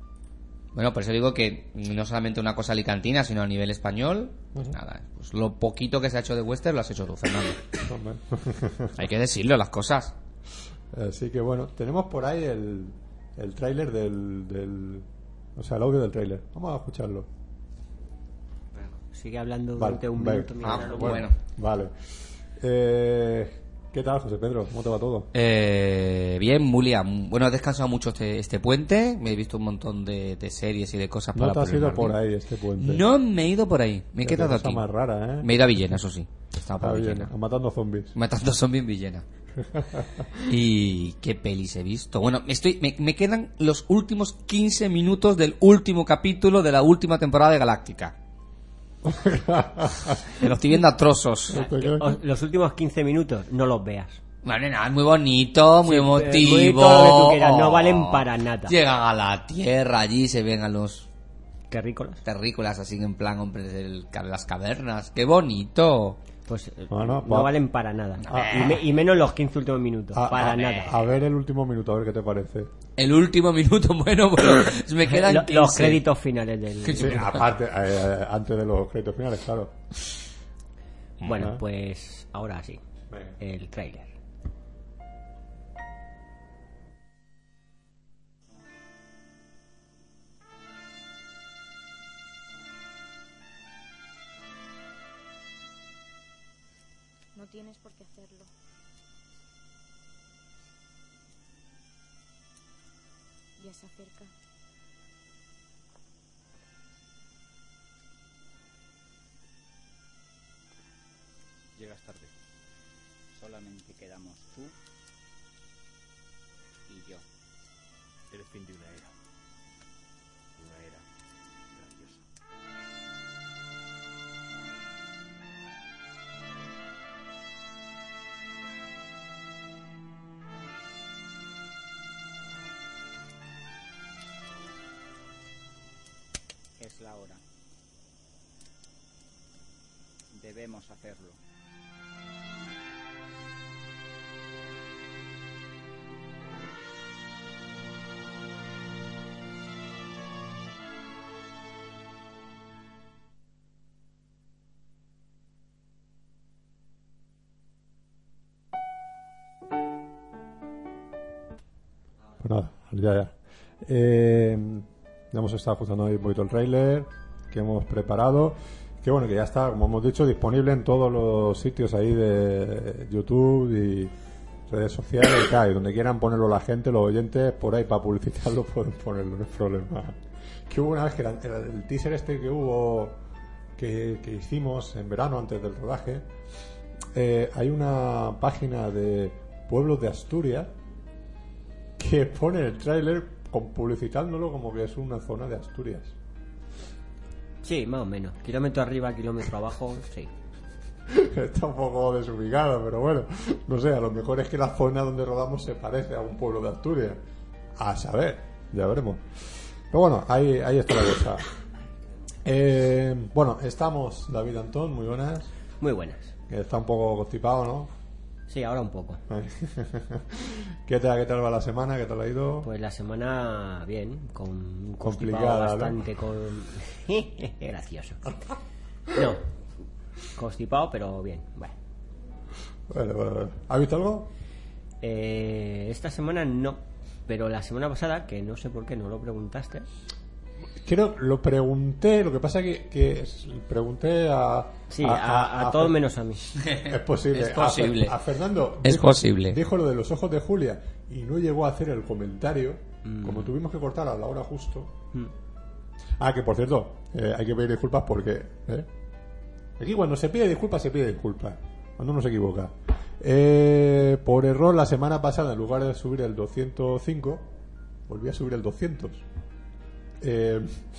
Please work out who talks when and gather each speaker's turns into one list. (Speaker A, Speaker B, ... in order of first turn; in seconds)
Speaker A: 0.7-7.6, 8.9-10.1, 20.6-21.4, 25.3-32.2, 32.8-34.9, 35.4-37.3, 38.1-39.2, 40.4-48.1, 50.2-51.7, 54.4-61.1, 62.2-66.2, 68.2-68.8, 70.3-71.0, 73.0-76.0, 76.8-77.4, 246.7-248.2, 248.8-249.6
Speaker B: 7.8-9.0, 10.9-17.3, 19.8-21.9, 22.6-25.3, 31.3-33.0, 34.2-35.8, 36.8-38.1, 39.6-40.3, 49.0-50.4, 51.5-52.1, 66.9-67.5, 68.3-68.7, 70.1-72.7, 77.0-79.8, 81.3-81.6, 83.1-83.3, 162.4-174.1, 174.7-183.2, 183.8-186.2, 187.1-190.7, 192.0-196.1, 201.1-207.2, 207.8-211.4, 212.4-215.5, 216.5-217.9, 219.3-222.7, 225.0-226.0, 232.9-234.3, 240.8-246.0, 246.8-255.0, 256.2-258.9, 259.8-267.5, 268.1-269.2, 270.2-270.8
Speaker C: 18.8-21.2, 51.5-54.2, 55.8-58.8, 61.7-62.2, 66.5-71.0, 75.1-77.3, 81.2-82.8, 83.4-84.1, 197.6-200.3, 215.8-216.3, 218.5-219.2, 222.6-228.3, 229.1-229.4, 230.3-231.7, 235.0-239.9, 244.9-246.4, 253.0-253.5
Speaker D: 97.3-98.5, 103.6-104.3
Speaker E: 111.8-112.3, 113.3-114.7, 116.9-117.2, 118.3-119.1, 120.6-121.0, 121.7-122.2, 136.8-137.4, 140.3-141.4